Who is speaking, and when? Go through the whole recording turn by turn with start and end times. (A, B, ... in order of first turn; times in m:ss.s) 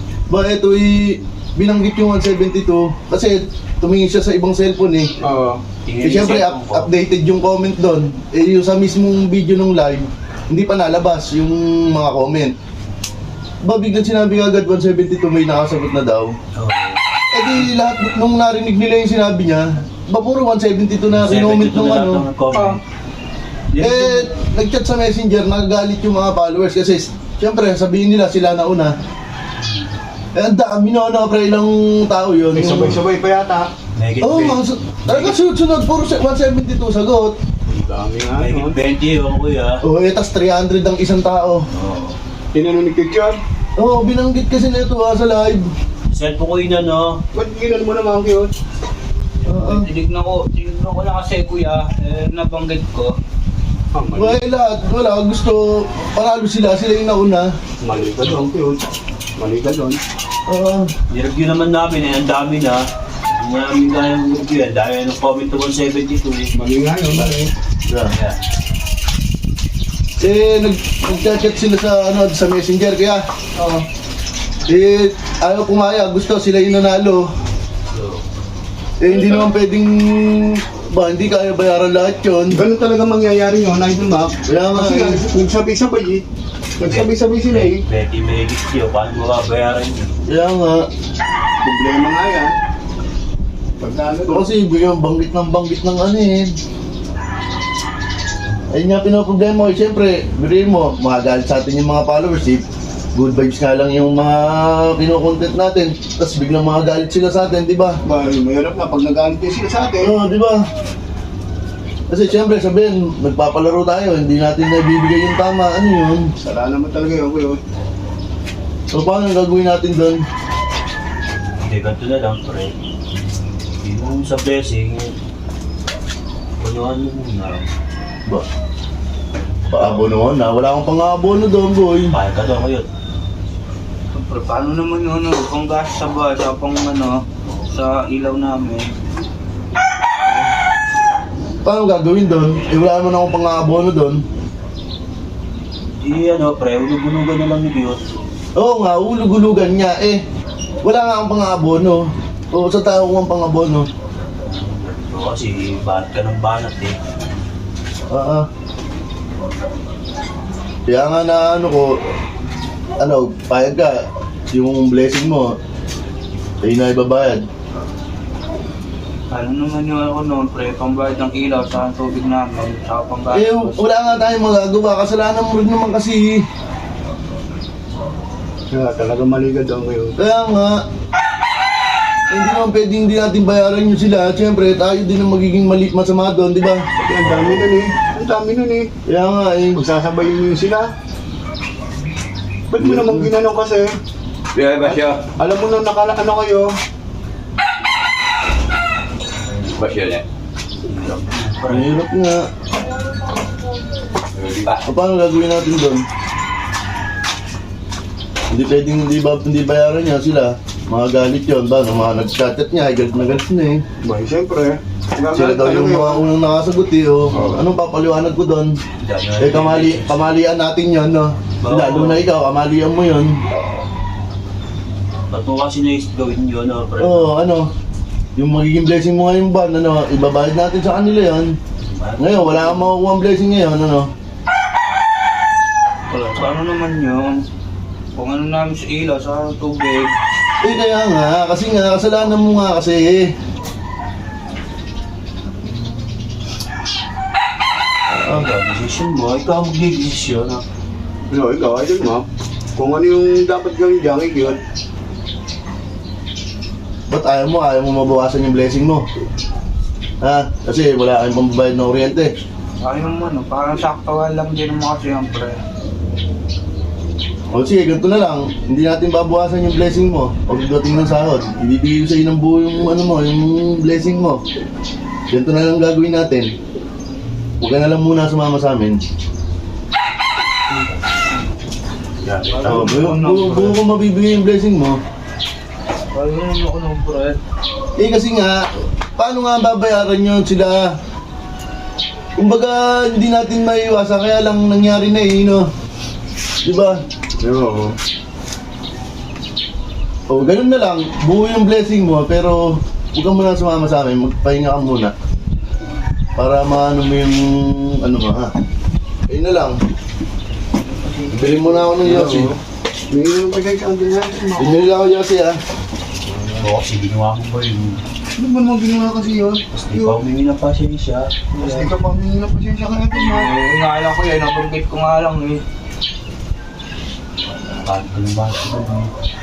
0:00.3-0:05.1 A
0:05.2-0:05.6 B
0:05.8-0:06.9 C
0:06.0-0:12.5 A
0:13.6-0:16.3 A
0:16.5-0:17.0 C
0:17.3-0:22.2 A
0:21.1-0:22.8 C
0:22.5-0:22.8 D
0:23.7-0:24.3 C
0:23.8-0:28.9 A
0:29.6-0:30.0 C
0:30.3-0:33.0 A
0:32.5-0:33.7 B
0:34.0-0:35.4 C
0:34.2-0:37.4 A
0:37.7-0:38.8 B
0:38.4-0:39.8 C
0:39.8-0:41.6 A
0:41.7-0:42.2 C
0:42.5-0:43.4 B
0:43.8-0:45.6 A
0:46.1-0:47.2 C
0:47.3-0:48.5 B
0:49.4-0:49.9 A
0:49.5-0:53.1 D
0:53.9-0:54.4 B
0:54.2-0:57.5 A
0:57.8-1:00.0 B
1:00.5-1:00.9 A
1:01.1-1:06.5 C
1:06.5-1:07.5 B
1:07.9-1:08.1 A
1:08.1-1:08.4 C
1:10.2-1:13.2 A
1:14.7-1:17.2 A
1:17.9-1:18.2 C
1:19.0-1:22.6 A
1:19.0-1:19.5 B
1:22.5-1:26.2 B
1:24.5-1:25.2 A
1:26.8-1:27.8 B
1:26.8-1:30.1 C
1:30.3-1:30.8 A
1:31.6-1:32.6 B
1:33.8-1:34.4 B
1:34.3-1:36.5 A
1:38.7-1:42.6 A
1:43.1-1:48.0 A
1:48.0-1:50.1 B
1:50.0-1:50.6 A
1:52.1-1:56.2 A
1:56.4-1:57.6 B
1:58.9-2:00.2 A
2:01.6-2:02.7 C
2:03.8-2:05.1 C
2:06.6-2:07.7 C
2:09.7-2:12.1 A
2:12.1-2:12.9 C
2:14.1-2:18.9 D
2:21.6-2:24.2 A
2:26.0-2:28.0 C
2:28.6-2:30.2 A
2:30.8-2:33.9 A
2:34.4-2:37.0 C
2:38.1-2:38.5 A
2:40.9-2:42.0 A
2:43.0-2:45.5 A
2:46.6-2:47.4 A
2:49.3-2:53.8 D
2:53.3-2:56.4 A
2:58.7-3:00.2 B
3:00.2-3:00.8 A
3:02.3-3:06.8 A
3:07.0-3:08.9 B
3:07.2-3:07.7 C
3:09.1-3:09.8 A
3:09.7-3:10.9 B
3:12.7-3:14.0 B
3:12.8-3:13.3 A
3:14.5-3:15.0 C
3:14.8-3:16.7 B
3:19.5-3:20.2 C
3:20.8-3:21.9 C
3:21.7-3:22.4 A
3:24.4-3:24.8 C
3:24.8-3:26.0 A
3:28.5-3:33.8 A
3:34.0-3:36.2 B
3:35.3-3:38.8 A
3:37.3-3:37.7 B
3:39.0-3:40.4 C
3:39.4-3:43.4 A
3:41.6-3:42.2 C
3:45.3-3:47.4 C
3:47.0-3:47.7 A
3:48.4-3:51.5 A
3:51.8-3:52.9 C
3:52.2-3:54.1 A
3:56.1-3:57.4 D
3:58.2-4:00.1 D
4:00.6-4:03.3 A
4:08.1-4:08.5 A
4:08.2-4:10.6 C
4:11.3-4:14.6 B
4:17.1-4:19.0 A
4:20.2-4:22.3 A
4:22.8-4:25.6 D
4:27.5-4:34.4 A
4:35.3-4:36.5 A
4:37.6-4:39.0 A
4:42.2-4:43.0 B
4:42.5-4:43.8 D
4:42.6-4:45.0 A
4:46.1-4:47.4 D
4:48.0-4:48.6 A
4:49.2-4:50.8 A
4:52.4-4:55.6 A
4:56.6-4:57.9 A
5:00.3-5:05.1 A
5:06.4-5:08.5 A
5:09.3-5:09.8 A
5:11.3-5:12.5 A
5:12.0-5:12.6 B
5:13.1-5:14.9 B
5:14.6-5:15.6 A
5:16.2-5:16.7 B
5:16.6-5:18.0 C
5:18.4-5:20.2 B
5:19.7-5:21.5 C
5:21.5-5:23.5 B
5:23.1-5:25.6 D
5:27.6-5:29.1 C